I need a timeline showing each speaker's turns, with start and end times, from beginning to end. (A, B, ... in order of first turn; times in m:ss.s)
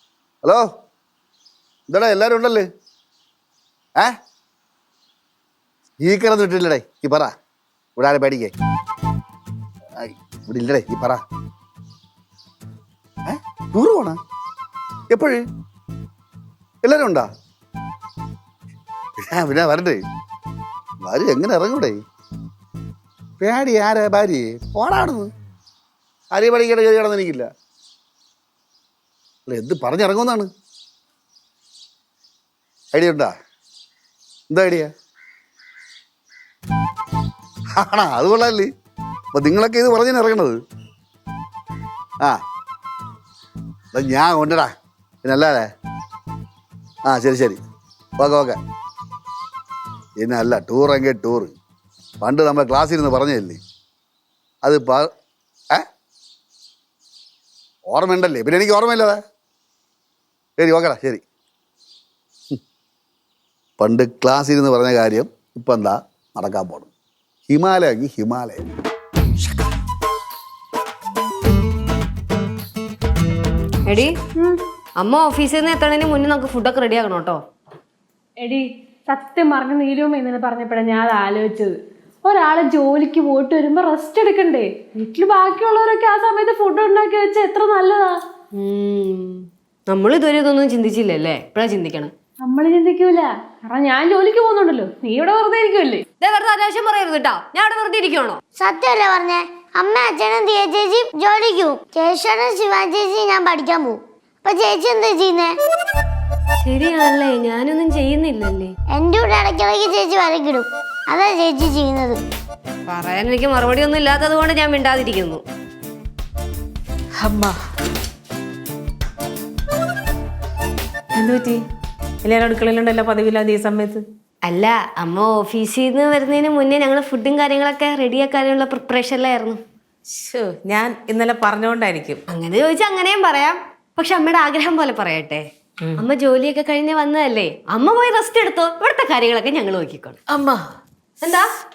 0:01.9-0:02.7 A
0:06.0-0:07.3 A
0:08.0-0:08.5 A
0:10.0-0:11.2 A
0:13.2-0:14.2 A
0:15.1-0:15.4 A
0:16.8-0:17.3 A
0:19.3-0:20.0 A
0:21.0-0:22.0 A
0:23.4-0:25.3 A
0:26.3-0:27.5 A
0:29.5-0:30.5 A
0:32.9-0:33.3 A
0:34.5-0:34.9 A
0:37.8-0:38.7 A
0:39.3-0:40.6 A
0:43.9-0:44.7 A
0:45.2-0:45.7 A
0:47.1-0:47.6 A
0:48.2-0:48.6 A
0:50.2-0:51.5 A
0:52.2-0:53.6 A
0:54.6-0:55.1 A
0:57.9-0:59.2 A
1:00.6-1:01.2 A
1:03.8-1:06.9 A
1:07.5-1:08.6 A
1:13.9-1:14.1 B
1:15.0-1:17.4 B
1:18.4-1:28.2 C
1:28.6-1:32.1 B
1:32.4-1:36.0 C
1:36.2-1:38.4 B
1:38.6-1:45.5 D
1:46.6-1:48.7 B
1:48.9-1:52.2 D
1:52.9-1:55.4 B
1:57.2-1:57.6 E
2:01.1-2:01.6 E
2:02.2-2:04.0 E
2:04.4-2:09.6 B
2:10.1-2:12.2 E
2:12.3-2:15.4 B
2:16.0-2:20.2 B
2:20.3-2:20.6 E
2:21.2-2:21.5 B